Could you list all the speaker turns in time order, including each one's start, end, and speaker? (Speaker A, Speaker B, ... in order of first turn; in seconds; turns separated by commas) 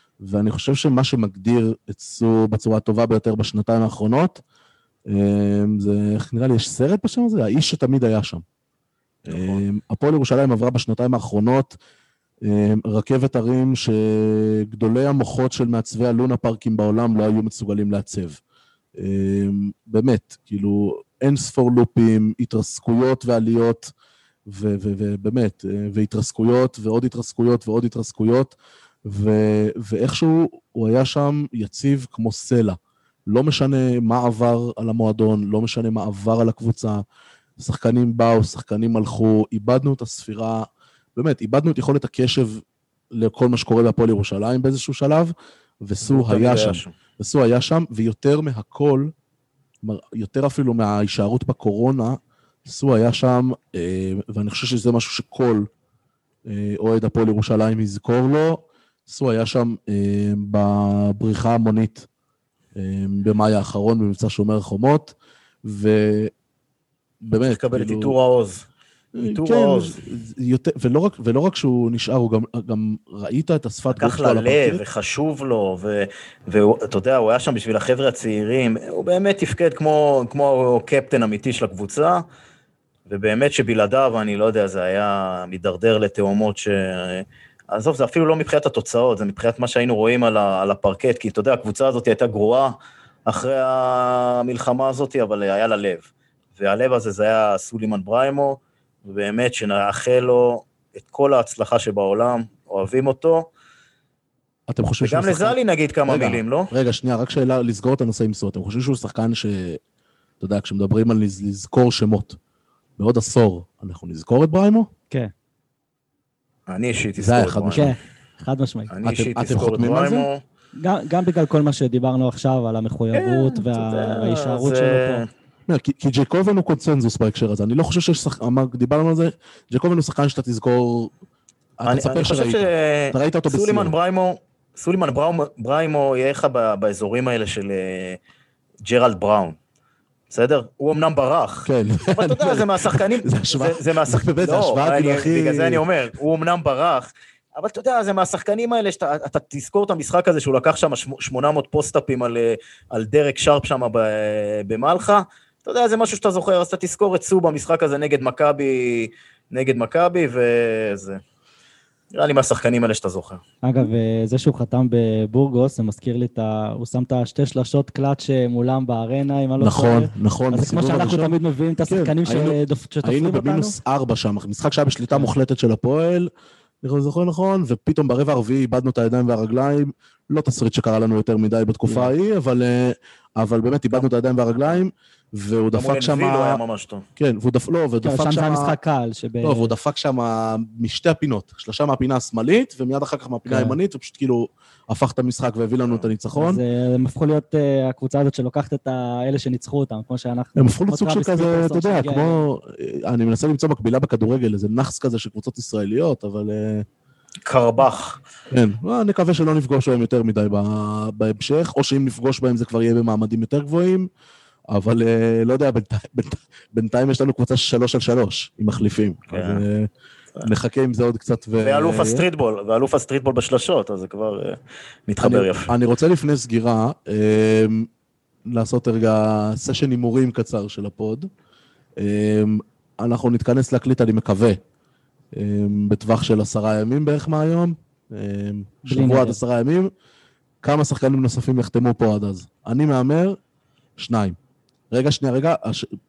Speaker A: 0.2-4.4, Speaker A: 5.1-8.4, Speaker A: 9.2-11.7, Speaker B: 9.3-9.6, Speaker A: 12.4-18.4, Speaker A: 18.9-23.9, Speaker A: 24.4-32.8, Speaker A: 33.3-37.0, Speaker A: 37.6-49.1, Speaker B: 46.0-46.9, Speaker A: 49.8-55.7, Speaker A: 56.5-62.1, Speaker A: 62.7-66.3, Speaker A: 67.2-68.2, Speaker B: 67.5-68.7, Speaker A: 69.1-74.8, Speaker B: 69.2-70.0, Speaker B: 73.9-82.2, Speaker B: 83.1-96.1, Speaker B: 96.6-103.5, Speaker A: 104.7-109.8, Speaker B: 104.8-106.7, Speaker A: 110.4-112.4, Speaker A: 113.0-114.9, Speaker B: 116.7-117.9, Speaker A: 117.2-117.9, Speaker C: 117.7-118.9, Speaker B: 118.9-120.4, Speaker A: 119.0-120.3, Speaker C: 120.8-125.2, Speaker B: 123.1-125.3, Speaker A: 125.7-131.1, Speaker A: 131.8-133.9, Speaker B: 131.8-138.2, Speaker B: 138.8-139.6, Speaker B: 140.3-161.2, Speaker A: 141.6-145.8, Speaker B: 162.1-163.4, Speaker C: 163.6-173.8, Speaker A: 169.6-171.3, Speaker A: 171.9-176.3, Speaker A: 176.8-186.6, Speaker C: 181.8-182.1, Speaker B: 185.7-187.0, Speaker A: 187.2-188.8, Speaker C: 188.0-189.7, Speaker A: 189.4-196.6, Speaker C: 193.4-193.8, Speaker C: 196.3-202.4, Speaker A: 200.6-206.8, Speaker B: 207.4-208.2, Speaker A: 208.5-214.1, Speaker A: 214.7-219.9, Speaker B: 219.3-219.6, Speaker A: 220.4-222.2, Speaker B: 221.6-225.7, Speaker A: 225.2-227.9, Speaker A: 228.5-231.3, Speaker A: 232.0-234.6, Speaker A: 235.3-239.9, Speaker C: 238.9-239.4, Speaker A: 240.6-243.4, Speaker A: 244.0-244.4, Speaker A: 244.9-245.9